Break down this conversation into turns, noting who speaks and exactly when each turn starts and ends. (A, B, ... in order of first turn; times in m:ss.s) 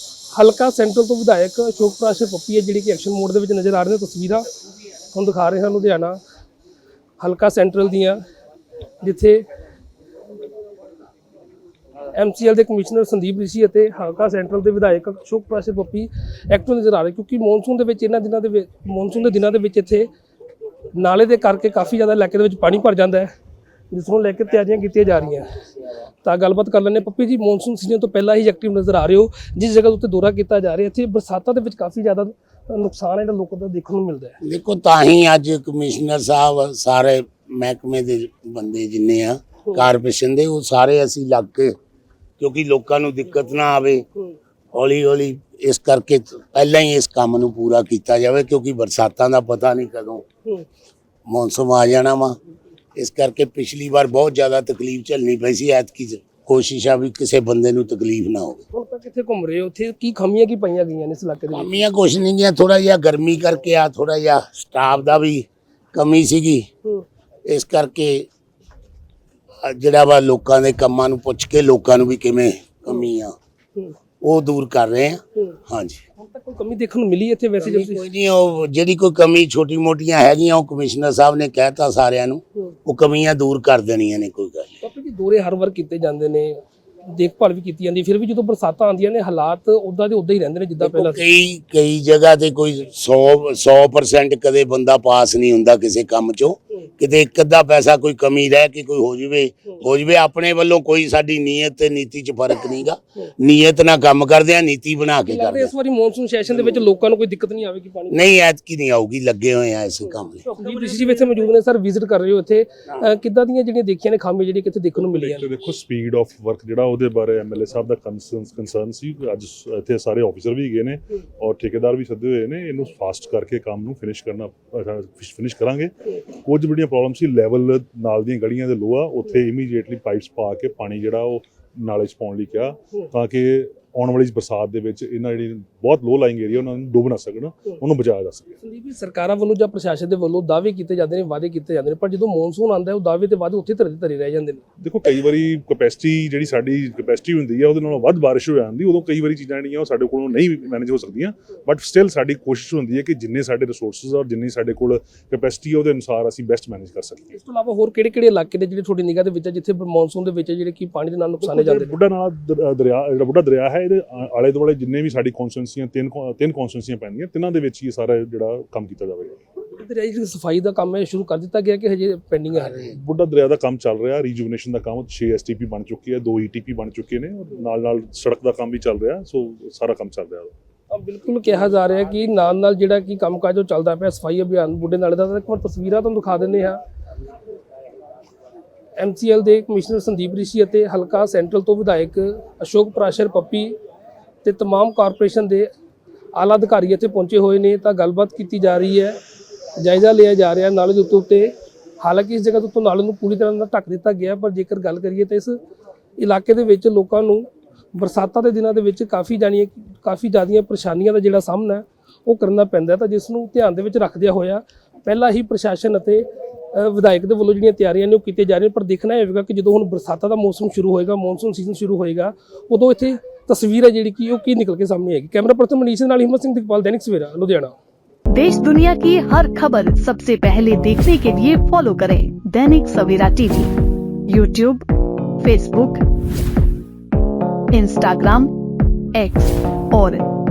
0:00.3-0:04.4 A
0:05.1-0:06.2 A
0:07.2-0:08.2 A
0:09.0-0:09.4 A
0:12.1-0:20.1 A
0:20.9-0:23.3 A
0:23.9-0:25.5 A
0:26.2-0:34.4 A
0:34.4-0:41.7 B
0:42.4-0:44.0 B
0:44.7-0:50.2 B
0:51.3-0:52.4 B
0:53.0-0:58.6 B
0:58.7-1:01.8 A
1:01.5-1:06.7 B
1:07.5-1:08.3 B
1:09.6-1:13.3 B
1:14.2-1:16.0 B
1:16.2-1:18.0 A
1:17.6-1:24.7 B
1:24.8-1:31.2 A
1:30.8-1:45.7 B
1:45.3-1:48.2 A
1:48.1-1:50.4 B
1:50.5-1:55.4 A
1:55.0-2:18.5 C
2:18.6-2:24.6 A
2:24.8-2:37.3 C
2:37.3-2:41.9 A
2:41.4-2:49.4 C
2:49.8-2:52.9 A
2:52.6-2:52.9 B
2:52.9-3:00.5 C
3:00.9-3:06.8 A
3:09.0-3:13.8 A
3:14.4-3:15.7 A
3:16.3-3:19.2 A
3:19.8-3:25.6 A
3:26.2-3:47.7 A
3:48.3-3:53.7 D
3:54.3-3:54.8 D
3:55.4-3:56.0 D
3:57.7-3:58.5 D
3:59.1-4:00.2 D